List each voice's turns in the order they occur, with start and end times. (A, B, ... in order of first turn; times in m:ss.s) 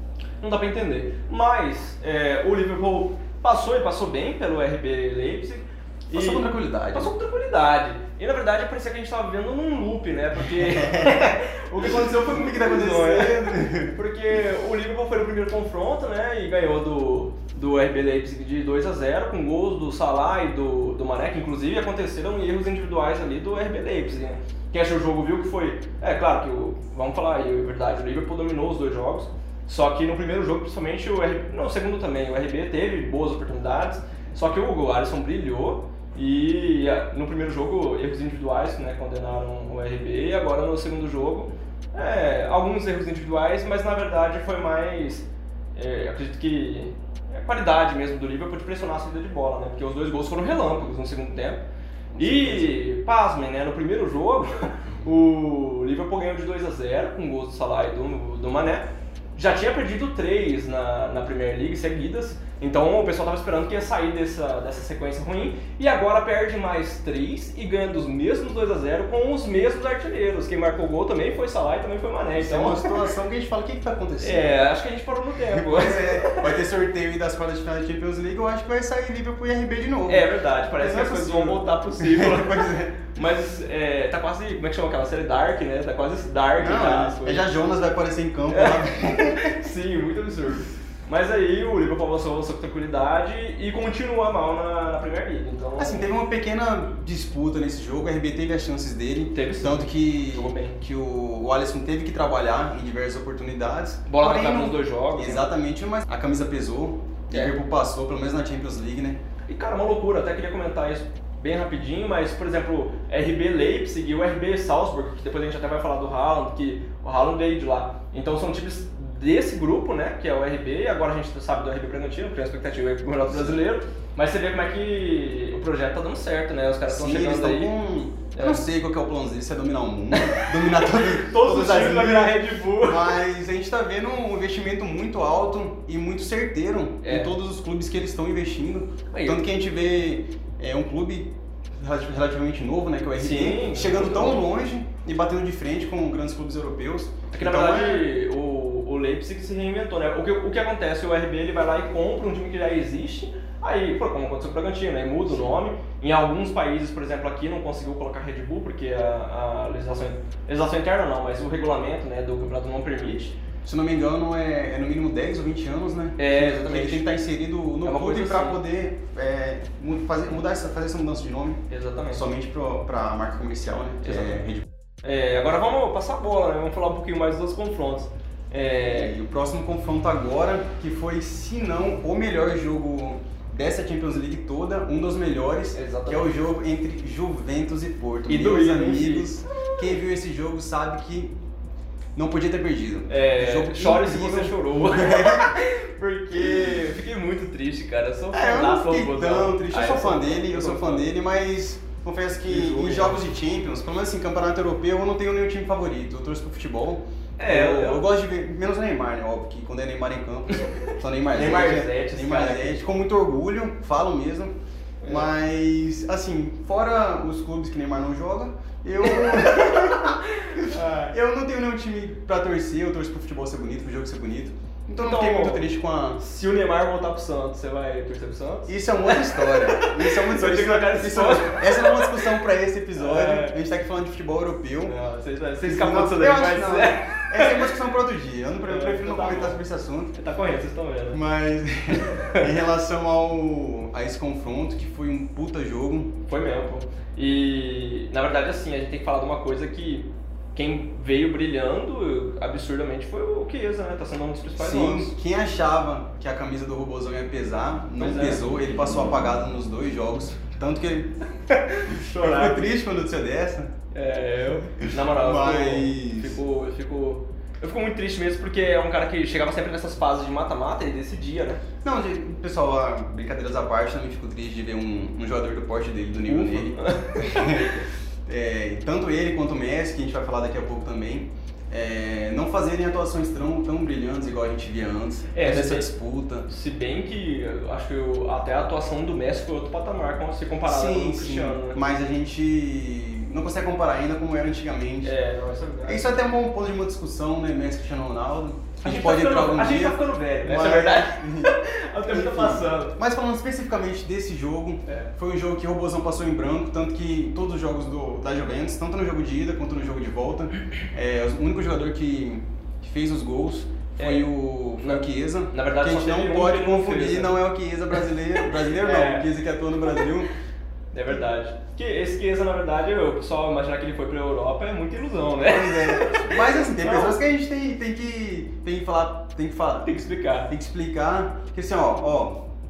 0:00.4-0:51.6 A
0:06.1-0:07.1 B
0:10.6-0:14.0 B
0:52.1-0:52.8 B
0:52.2-1:13.0 A
1:12.4-1:14.6 B
1:14.2-1:16.6 A
1:15.5-1:23.1 B
1:20.0-1:27.4 A
1:26.6-1:29.6 B
1:28.5-1:36.1 A
1:35.8-1:49.2 B
1:39.3-1:40.8 A
1:44.1-1:45.5 A
1:49.5-2:07.7 A
2:06.9-2:28.1 B
2:08.3-2:08.6 A
2:10.1-2:13.2 A
2:17.0-2:17.4 A
2:19.1-2:19.4 A
2:23.2-2:24.5 A
2:27.3-2:43.4 A
2:43.6-2:54.7 B
2:46.2-2:47.1 A
2:47.8-2:48.6 A
2:51.7-2:52.2 A
2:54.0-2:54.4 A
2:55.0-2:59.2 A
2:58.8-3:11.3 B
3:05.7-3:06.3 A
3:08.3-3:10.0 A
3:12.1-3:15.5 B
3:13.1-3:21.1 A
3:16.3-3:16.8 B
3:18.3-3:34.5 B
3:22.4-3:23.2 A
3:27.4-3:28.0 A
3:31.3-3:32.8 A
3:35.0-3:35.3 A
3:35.0-3:46.2 B
3:39.0-3:41.1 A
3:45.0-3:45.7 A
3:46.2-3:52.4 A
3:48.7-3:55.0 B
3:53.0-3:53.6 A
3:54.8-3:57.7 A
3:55.6-4:00.1 B
3:58.7-3:59.6 A
4:00.1-4:01.2 A
4:01.1-4:06.2 B
4:01.9-4:02.5 A
4:06.3-4:15.1 A
4:14.6-4:21.2 B
4:18.0-4:19.0 A
4:21.5-4:22.8 A
4:21.8-4:23.7 B
4:23.9-4:31.6 A
4:24.8-4:26.4 B
4:31.8-4:46.5 B
4:36.3-4:37.7 A
4:45.3-4:45.9 A
4:46.5-4:51.8 A
4:50.6-4:55.1 B
4:55.0-4:56.1 A
4:55.8-5:20.3 B
4:58.8-5:02.9 A
5:14.0-5:17.4 A
5:17.9-5:19.3 A
5:20.9-5:27.2 A
5:25.5-5:29.9 B
5:29.8-5:30.5 A
5:30.5-5:32.4 B